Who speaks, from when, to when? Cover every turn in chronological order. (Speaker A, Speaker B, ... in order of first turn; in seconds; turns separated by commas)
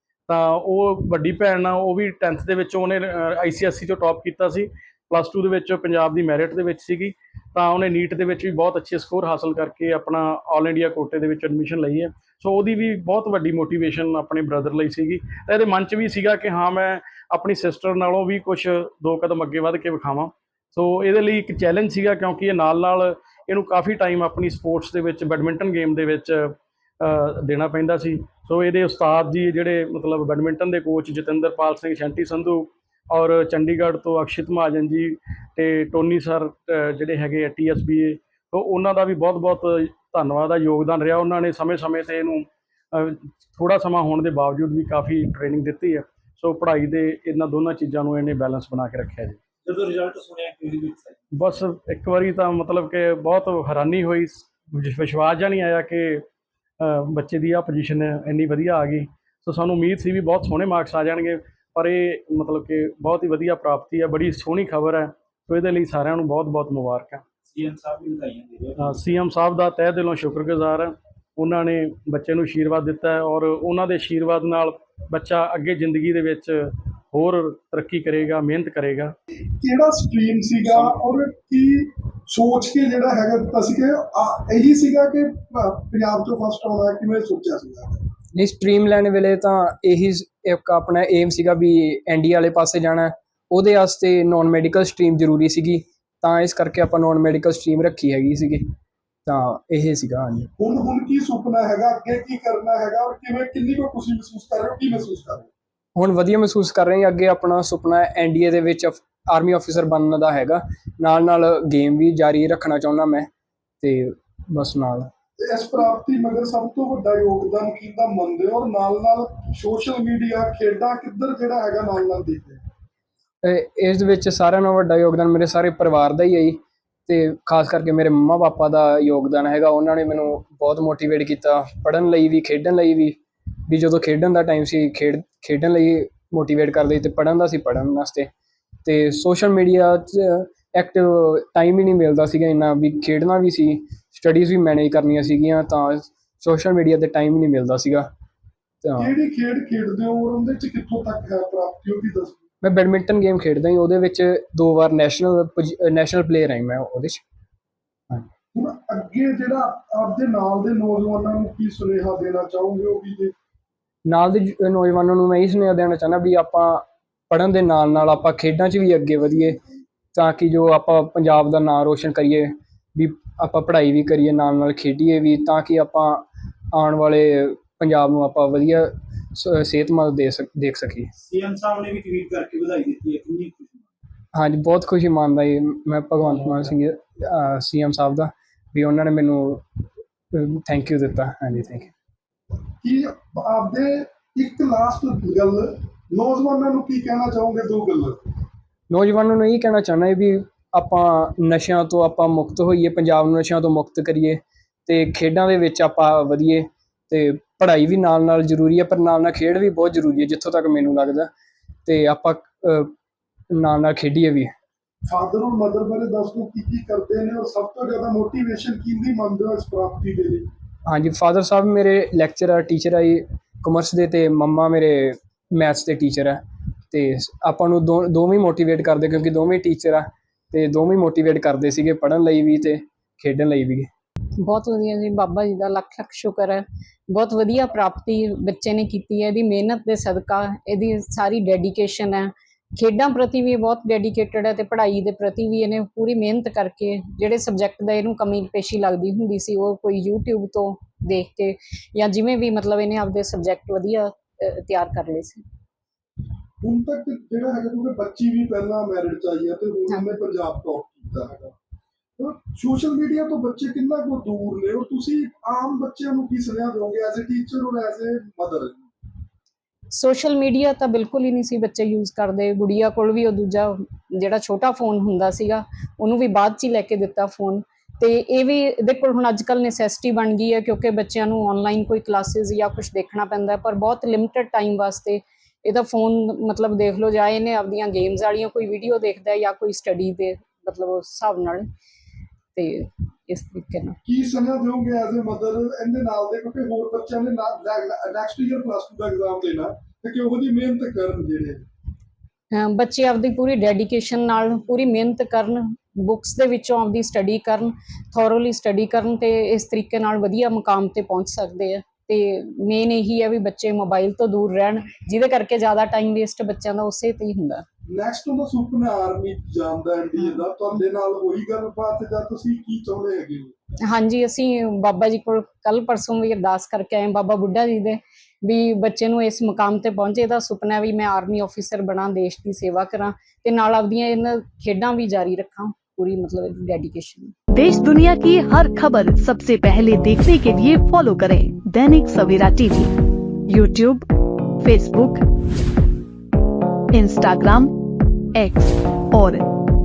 Speaker A: 0.3-49.4, Speaker B: 49.6-51.2, Speaker A: 51.3-56.3, Speaker A: 56.8-67.2, Speaker B: 67.5-68.8, Speaker A: 68.8-79.1, Speaker C: 79.6-88.0, Speaker D: 88.3-98.7, Speaker D: 99.3-100.5, Speaker C: 100.6-105.5, Speaker D: 106.0-113.3, Speaker D: 113.8-115.1, Speaker C: 115.4-122.6, Speaker D: 123.4-133.2, Speaker D: 133.7-138.3, Speaker D: 138.8-148.1, Speaker D: 148.8-149.1, Speaker C: 149.0-152.4, Speaker D: 152.6-157.2, Speaker C: 158.5-163.3, Speaker D: 164.1-169.6, Speaker D: 170.1-181.1, Speaker B: 181.2-183.9, Speaker D: 184.3-191.9, Speaker C: 192.8-198.2, Speaker D: 198.9-211.3, Speaker D: 211.9-212.9, Speaker D: 213.5-214.5, Speaker C: 215.1-220.5, Speaker D: 220.9-233.9, Speaker E: 234.4-255.4, Speaker C: 256.6-261.6, Speaker C: 262.2-268.8, Speaker E: 269.9-291.7, Speaker E: 292.5-294.0, Speaker C: 294.1-301.6, Speaker E: 302.5-317.6, Speaker C: 317.9-323.6, Speaker E: 323.8-337.3, Speaker F: 337.5-342.9, Speaker F: 343.5-344.1, Speaker F: 344.6-345.2, Speaker F: 346.9-347.7, Speaker F: 348.4-349.4